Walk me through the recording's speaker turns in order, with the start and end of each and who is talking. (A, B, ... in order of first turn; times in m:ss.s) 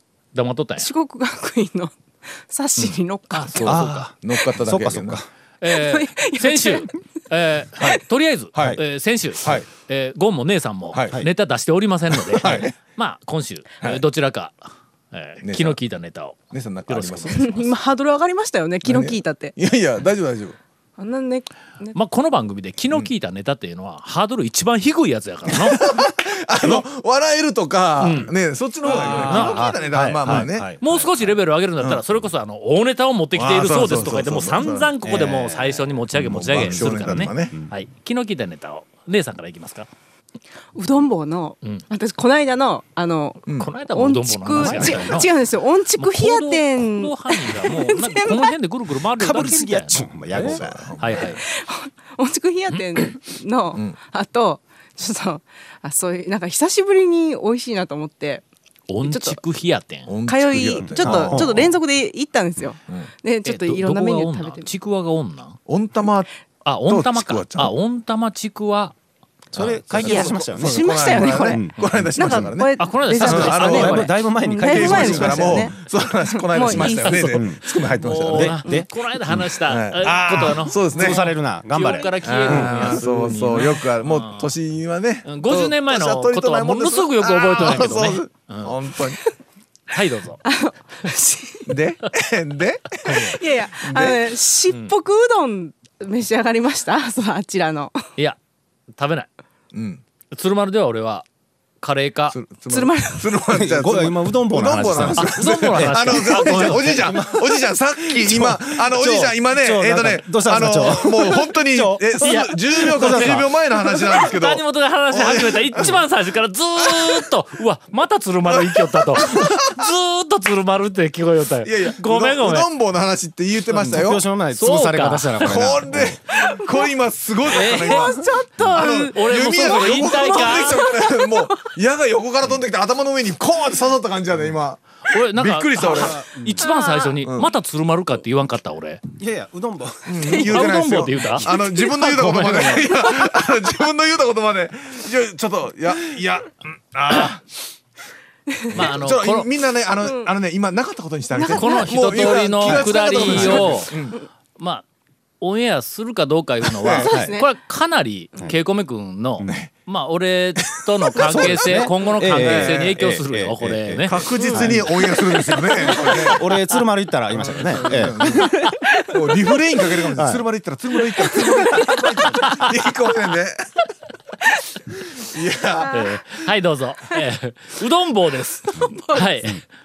0:00.3-0:00.9 A
0:00.8-0:03.8 B
0:02.8-0:04.1 A
0:03.6-0:05.3 C
0:04.2-0:05.2 D
0:05.6-0:17.6 A
0:05.7-0:07.0 B
0:08.5-0:08.8 D
0:09.4-0:09.6 D
0:10.9-0:11.2 D
0:12.3-0:12.7 D
0:15.4-0:15.8 D
0:16.5-0:17.7 D
0:17.3-0:19.5 B
0:18.8-0:20.6 D
0:21.0-0:22.0 B
0:21.9-0:25.8 A
0:25.5-0:30.8 D
0:28.0-0:28.3 A
0:28.8-0:31.3 C
0:28.9-0:39.9 A
0:33.3-0:35.1 D
0:35.0-0:37.7 C
0:36.1-0:37.6 D
0:40.7-0:48.5 B
0:43.4-0:43.7 D
0:43.6-0:45.3 A
0:44.6-0:45.2 C
0:46.0-0:51.4 A
0:49.1-0:51.2 C
0:50.3-0:51.3 D
0:51.2-0:58.4 B
0:58.9-1:00.1 A
0:59.0-0:59.4 B
1:00.1-1:01.8 D
1:00.3-1:04.7 B
1:01.0-1:01.5 C
1:03.4-1:05.6 A
1:05.6-1:06.3 D
1:06.6-1:08.9 A
1:06.8-1:07.8 D
1:09.5-1:12.5 C
1:09.6-1:14.1 D
1:10.0-1:11.6 B
1:12.2-1:17.5 B
1:12.8-1:14.2 A
1:13.1-1:15.7 C
1:14.6-1:18.6 D
1:16.7-1:18.9 C
1:18.0-1:24.5 A
1:19.3-1:21.2 D
1:20.4-1:23.0 C
1:22.2-1:29.2 D
1:25.2-1:28.7 A
1:27.3-1:27.8 B
1:29.9-1:30.4 A
1:30.4-1:31.8 B
1:31.7-1:33.2 D
1:33.0-1:38.0 B
1:33.0-1:33.4 A
1:33.8-1:34.3 D
1:39.0-1:39.3 A
1:39.7-1:40.0 D
1:40.3-1:41.2 A
1:41.8-1:42.4 A
1:42.3-1:56.0 D
1:42.7-1:43.4 B
1:43.5-1:53.5 C
1:45.1-1:47.1 A
1:52.2-2:02.7 A
1:56.8-1:57.2 D
1:58.5-1:59.6 D
2:01.6-2:04.2 D
2:03.7-2:06.2 C
2:04.5-2:05.6 A
2:05.4-2:08.1 D
2:06.4-2:06.8 B
2:07.5-2:11.6 B
2:07.5-2:10.8 A
2:08.7-2:16.2 D
2:15.1-2:19.0 A
2:15.8-2:16.6 C
2:16.6-2:17.2 B
2:17.2-2:17.5 D
2:19.2-2:20.8 C
2:20.1-2:27.5 D
2:20.2-2:20.7 B
2:20.4-2:22.9 A
2:28.5-2:28.8 B
2:28.7-2:34.2 D
2:28.7-2:29.5 A
2:31.4-2:34.0 A
2:31.4-2:31.8 B
2:32.3-2:32.9 B
2:33.3-2:33.8 C
2:34.6-2:34.8 A
2:35.4-2:44.9 A
2:36.6-2:37.0 D
2:36.9-2:37.3 C
2:37.0-2:37.5 B
2:39.4-2:39.7 D
2:41.2-2:45.0 C
2:41.2-2:41.8 D
2:42.3-2:43.1 D
2:44.1-2:46.4 D
2:45.5-2:46.1 A
2:45.8-2:48.6 C
2:47.3-2:53.6 D
2:48.3-2:48.9 A
2:50.1-2:50.4 C
2:51.5-2:51.9 B
2:55.0-2:56.4 D
2:55.8-2:56.1 B
2:55.9-2:59.6 A
2:58.7-2:59.2 B